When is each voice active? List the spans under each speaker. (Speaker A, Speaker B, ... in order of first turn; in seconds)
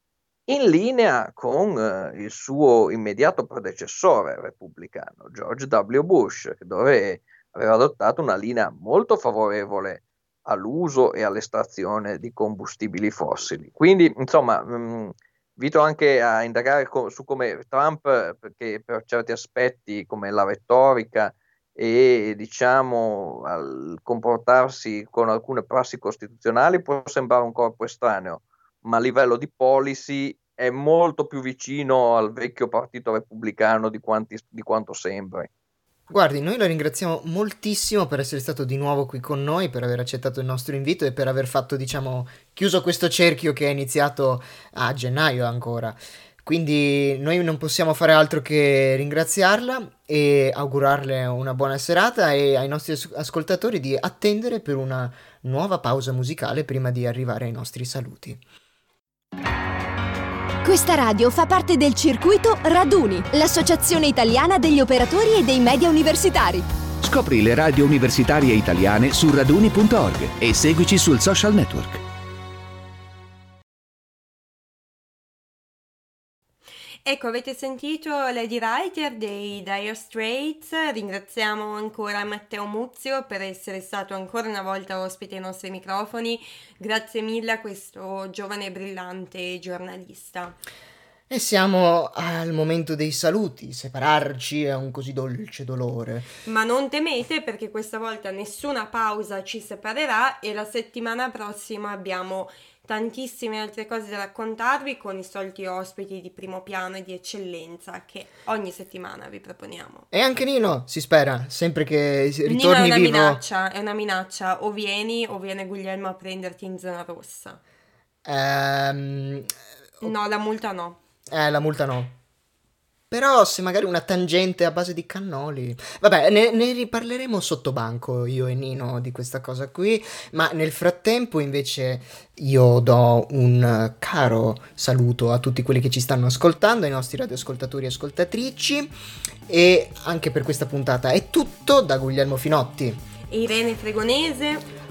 Speaker A: 0.5-35.5
Speaker B: 36.1-58.4, 91.3-96.3, 110.1-113.4, 118.2-120.1, 121.3-122.2, 123.1-138.9, 139.5-143.0
Speaker C: 60.6-66.7
Speaker D: 67.0-72.0
Speaker E: 77.0-90.6, 96.5-110.0, 112.5-117.6, 120.0-121.0, 143.3-144.7